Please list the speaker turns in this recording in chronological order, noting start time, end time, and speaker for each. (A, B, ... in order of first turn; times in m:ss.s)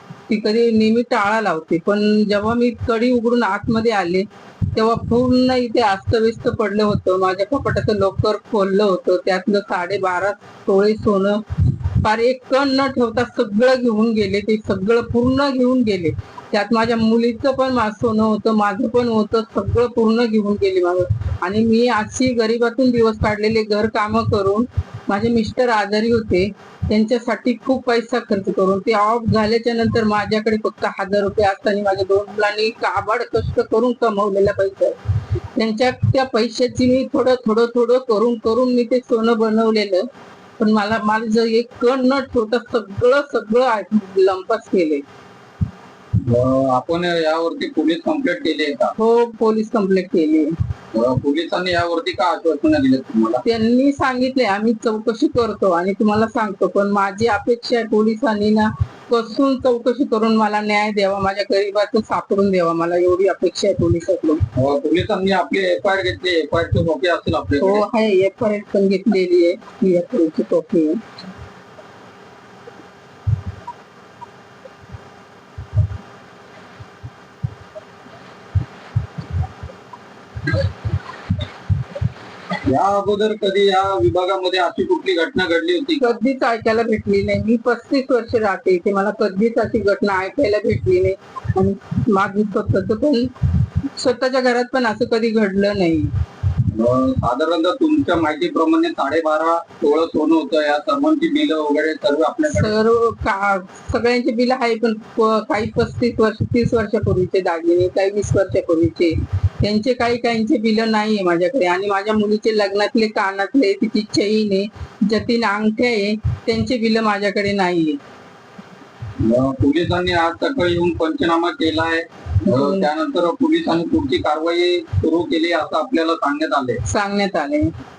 0:00.3-0:11.4 A
0:12.0-0:35.0 A
0:35.6-0:40.0 A
0:40.6-0:45.0 A
0:46.2-0:48.9 B
0:49.0-0:50.5 A
0:50.9-0:53.4 B
0:53.4-1:04.4 A
1:04.5-1:07.8 B
1:07.6-1:11.0 A
1:22.6-1:26.2 B
1:26.0-1:33.3 A
1:34.0-1:36.1 A
1:36.7-1:42.7 B
1:42.5-1:58.0 A
1:59.2-2:06.8 B
2:02.4-2:02.9 A
2:06.8-2:07.7 A